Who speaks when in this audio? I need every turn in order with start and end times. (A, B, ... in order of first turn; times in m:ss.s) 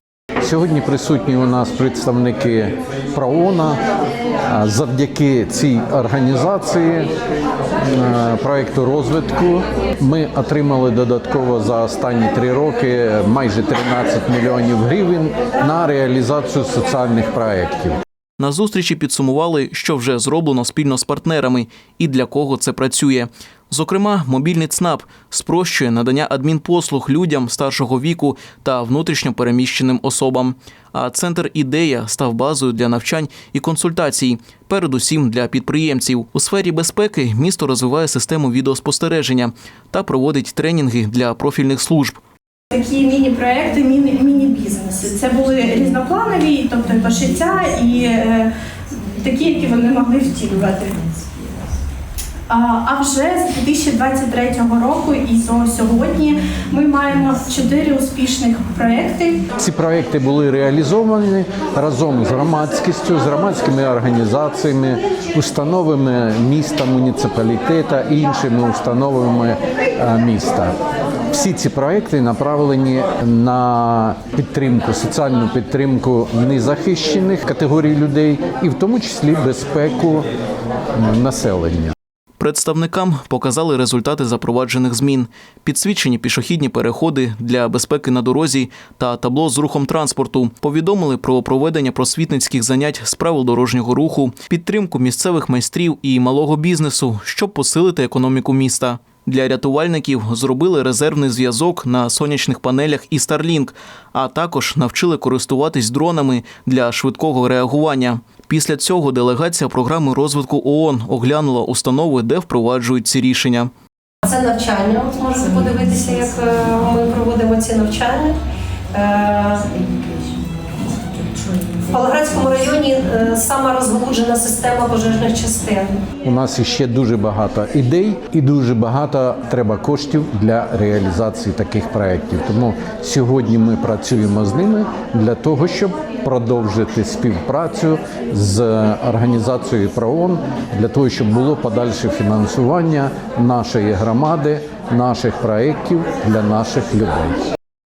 0:00.4-0:03.8 A
0:04.5-0:07.1 A
0:07.8-0:18.0 A
0:18.4-0:42.2 B
0:42.7-0:48.5 C
0:49.0-0:51.0 C
0:52.5-0:59.4 C
0:59.6-1:10.7 A
1:11.3-1:20.3 A
1:21.0-1:21.9 A
1:22.4-1:53.7 B
1:54.2-1:58.4 D
1:58.9-1:59.8 D
2:01.8-2:06.0 D
2:06.2-2:27.4 A